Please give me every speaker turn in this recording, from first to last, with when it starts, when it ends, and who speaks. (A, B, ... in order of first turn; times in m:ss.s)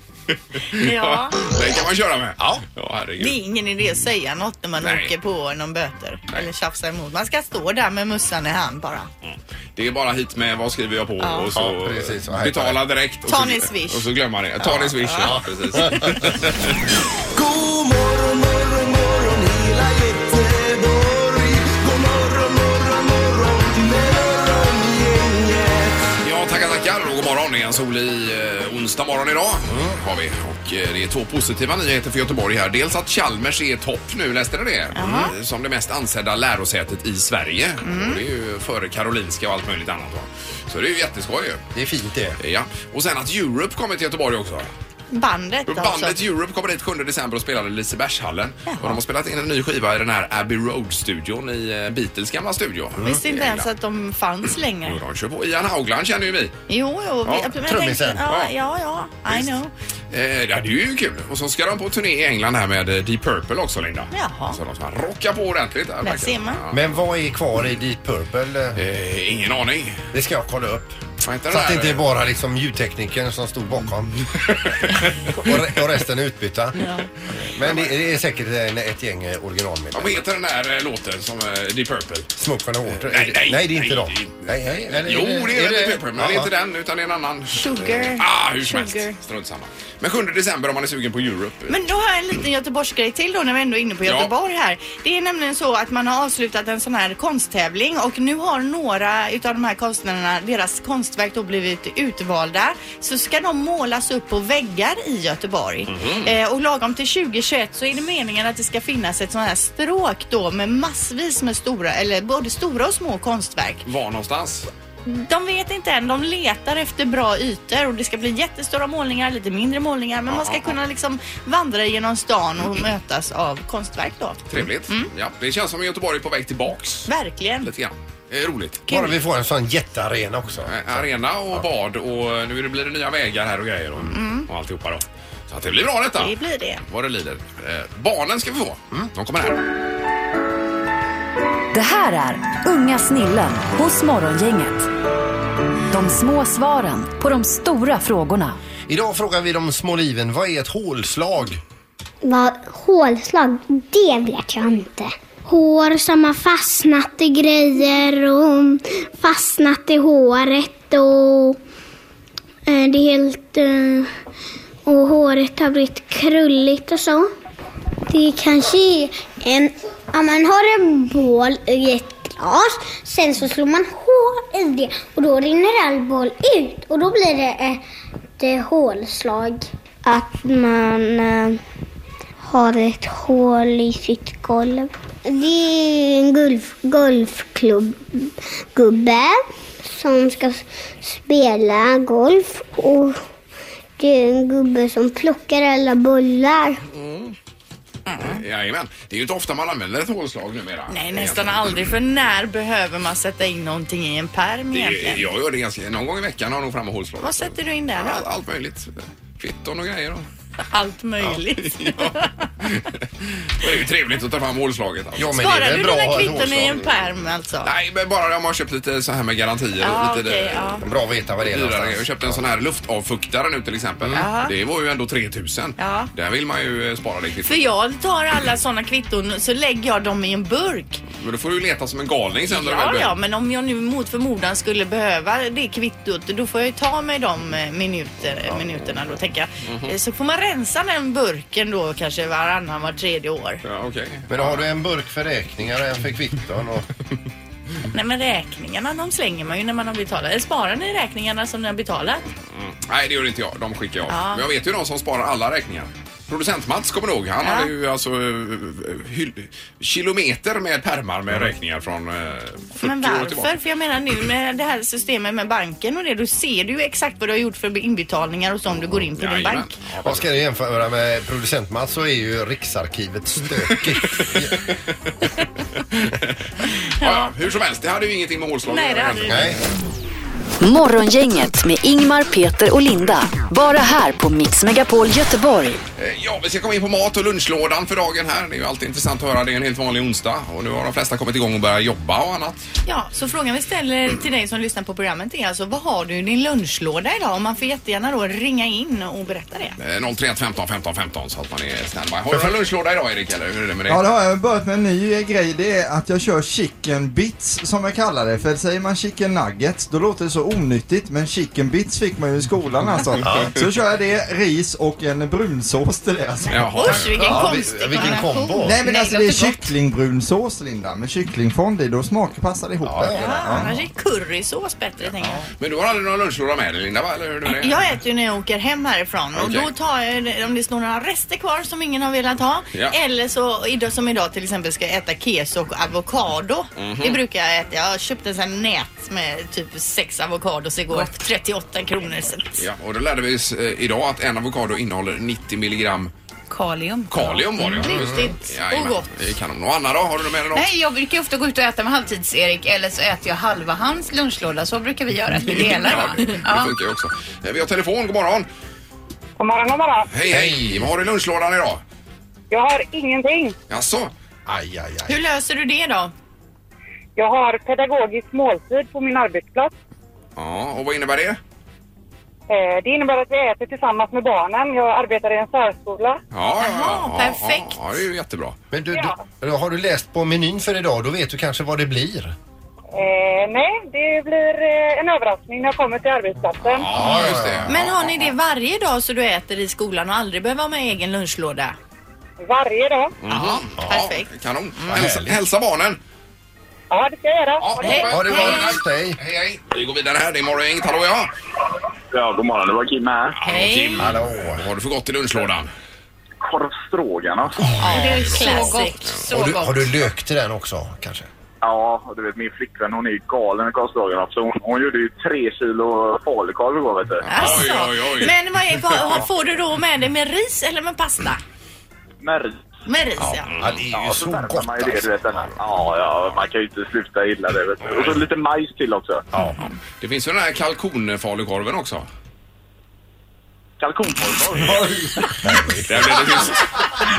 0:00.5-0:03.4 A
0:00.7-0:01.4 B
0:02.4-0:02.6 C
0:03.2-0:09.1 B
0:04.8-0:05.1 A
0:09.2-0:16.8 A
0:11.2-0:11.5 B
0:11.5-0:12.8 C
0:13.3-0:14.1 B
0:14.9-0:16.3 C
0:14.9-0:15.3 B
0:17.3-0:26.1 D
0:26.2-0:41.6 A
0:29.7-0:30.0 C
0:34.9-0:35.3 B
0:37.8-0:38.2 B
0:41.7-0:42.4 C
0:42.4-0:44.7 A
0:45.1-0:46.2 B
0:45.7-0:53.7 A
0:48.7-0:49.0 B
0:53.0-0:55.0 B
0:54.8-0:56.6 A
0:56.7-0:59.7 B
0:57.2-0:57.5 A
0:57.6-0:58.3 C
0:58.2-0:58.5 A
1:00.1-1:06.8 A
1:04.1-1:04.6 B
1:06.0-1:06.6 B
1:06.7-1:08.8 C
1:08.8-1:10.1 A
1:10.1-1:14.7 C
1:11.2-1:12.1 A
1:14.4-1:15.3 A
1:15.3-1:20.2 C
1:16.8-1:17.0 B
1:17.6-1:17.9 A
1:19.9-1:22.3 A
1:22.3-1:26.5 C
1:22.9-1:31.8 A
1:27.5-1:29.2 B
1:31.7-1:53.8 B
1:34.0-1:34.3 A
1:45.9-1:46.3 A
1:53.8-1:54.7 A
1:55.0-2:05.1 B
2:00.3-2:00.8 A
2:04.5-2:07.1 A
2:07.1-2:07.7 B
2:07.6-2:08.8 A
2:08.9-2:11.6 C
2:08.9-2:09.2 B
2:10.6-2:16.3 A
2:14.1-2:14.5 B
2:16.2-2:16.8 B
2:16.8-2:19.6 A
2:21.7-2:24.9 E
2:25.9-2:28.6 E
2:28.9-2:31.6 C
2:32.2-2:41.6 F
2:42.7-2:44.1 F
2:44.8-2:47.3 F
2:48.1-2:57.8 F
2:58.4-3:01.6 F
3:02.4-3:13.2 F
3:14.0-3:16.8 F
3:16.9-3:17.4 A
3:18.1-3:18.4 B
3:18.2-3:21.9 A
3:20.9-3:25.2 B
3:24.7-3:30.3 A
3:27.2-3:28.2 B
3:30.7-3:32.5 B
3:31.6-3:35.5 A
3:35.2-3:37.0 C
3:35.3-3:37.7 B
3:37.6-3:40.9 A
3:39.8-3:40.8 B
3:40.8-3:42.4 C
3:41.4-3:47.7 A
3:44.1-3:44.5 B
3:45.8-3:46.1 B
3:47.4-3:51.0 B
3:51.1-3:53.1 A
3:52.5-4:03.6 B
3:59.6-3:59.9 A
4:03.6-4:04.7 A
4:04.3-4:06.9 C
4:07.9-4:12.3 B
4:12.5-4:23.5 A
4:14.1-4:14.4 B
4:17.4-4:17.7 B
4:22.8-4:29.7 B
4:29.1-4:30.4 A
4:30.0-4:34.6 C
4:33.9-4:34.4 A
4:35.9-4:39.6 A
4:37.0-4:37.3 B
4:38.7-4:39.6 B
4:39.3-4:39.6 C
4:40.6-4:45.8 E
4:46.0-4:52.7 A
4:52.8-4:59.8 B
4:59.8-5:04.0 A
5:03.9-5:18.1 G
5:13.2-5:13.6 C
5:16.5-5:17.4 A
5:16.5-5:19.6 B
5:16.9-5:18.8 C
5:18.6-5:23.8 G
5:22.8-5:23.5 C
5:23.1-5:25.4 B
5:25.6-5:27.9 A
5:27.5-5:42.6 B
5:29.3-5:29.7 A
5:36.8-5:37.2 A
5:42.6-5:46.1 A
5:46.5-5:47.5 H
5:47.1-5:50.7 A
5:47.7-5:49.1 B
5:47.9-5:48.2 C
5:50.5-5:56.7 H
5:55.4-5:58.5 A
5:59.4-6:00.1 I
6:00.1-6:01.8 A
6:00.3-6:00.9 C
6:02.5-6:03.5 I
6:03.7-6:04.1 A
6:04.5-6:05.2 C
6:05.1-6:06.1 B
6:07.2-6:09.7 I
6:10.4-6:11.4 A
6:12.5-6:16.2 I
6:16.3-6:18.6 A
6:16.6-6:17.7 B
6:18.7-6:22.3 C
6:18.9-6:19.2 I
6:22.9-6:26.9 I
6:26.6-6:28.3 A
6:26.9-6:27.8 C
6:27.7-6:31.7 B
6:32.4-6:33.1 I
6:33.2-6:36.0 A
6:33.3-6:35.0 B
6:34.9-6:35.4 C
6:36.9-6:38.0 I
6:37.6-6:41.3 A
6:37.8-6:38.7 B
6:38.1-6:39.2 C
6:42.1-6:43.4 J
6:43.4-6:45.7 A
6:43.5-6:44.0 B
6:44.0-6:44.6 C
6:46.4-6:47.7 J
6:47.8-6:49.5 B
6:47.8-6:49.8 H
6:48.0-6:49.2 A
6:49.3-6:51.3 C
6:51.6-6:57.6 J
6:57.2-6:58.4 A
6:57.3-7:01.4 B
6:58.9-6:59.2 A
7:02.2-7:02.6 J
7:02.8-7:03.5 B
7:03.2-7:05.5 C
7:03.5-7:03.9 A
7:03.9-7:09.2 J
7:09.3-7:09.6 C
7:10.0-7:12.1 A
7:13.8-7:15.0 J
7:14.6-7:16.2 C
7:15.9-7:16.9 A